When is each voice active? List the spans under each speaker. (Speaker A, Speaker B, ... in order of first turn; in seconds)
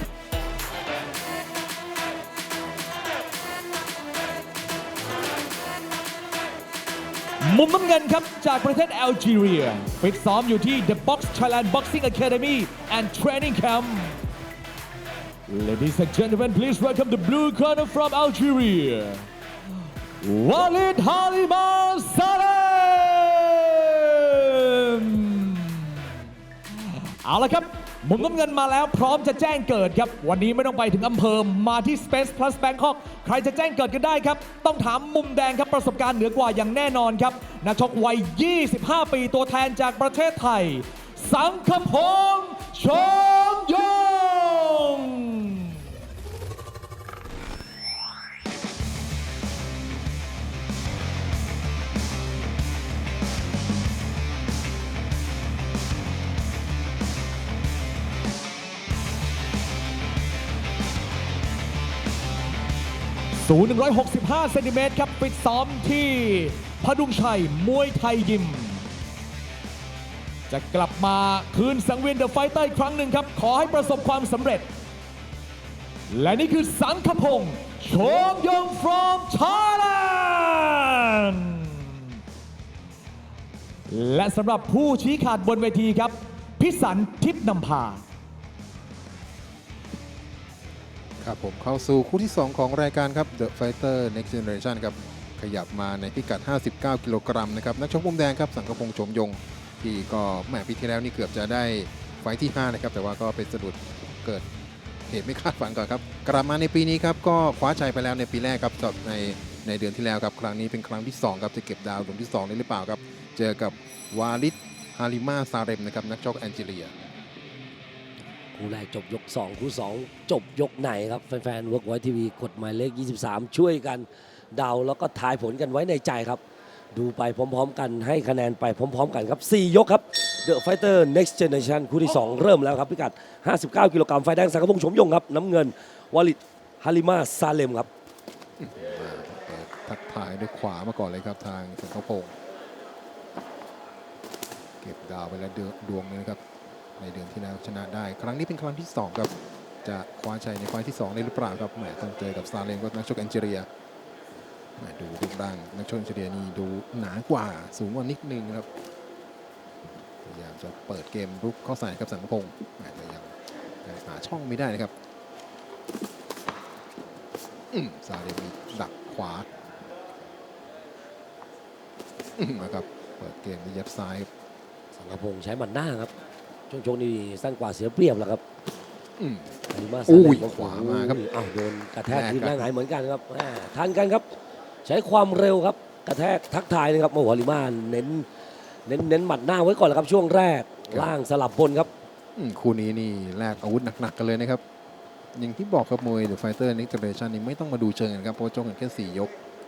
Speaker A: 7.4-14.2, 15.5-19.3, 20.2-25.9, 27.2-45.6, 63.4-68.8, 70.5-74.7, 76.1-81.8, 83.9-88.0
Speaker B: 91.2-104.4, 105.1-116.9, 138.6-142.3, 144.8-146.4, 147.0-149.3, 149.8-153.7, 154.8-158.7, 160.2-163.3, 163.8-164.9, 167.7-169.5, 172.4-174.3, 179.2-179.5, 180.1-181.2, 182.1-182.7, 192.4-194.6, 195.3-199.3
Speaker C: 118.5-126.4, 126.9-137.9, 174.9-176.1, 176.7-178.4, 179.7-184.3, 184.8-188.3, 188.9-191.9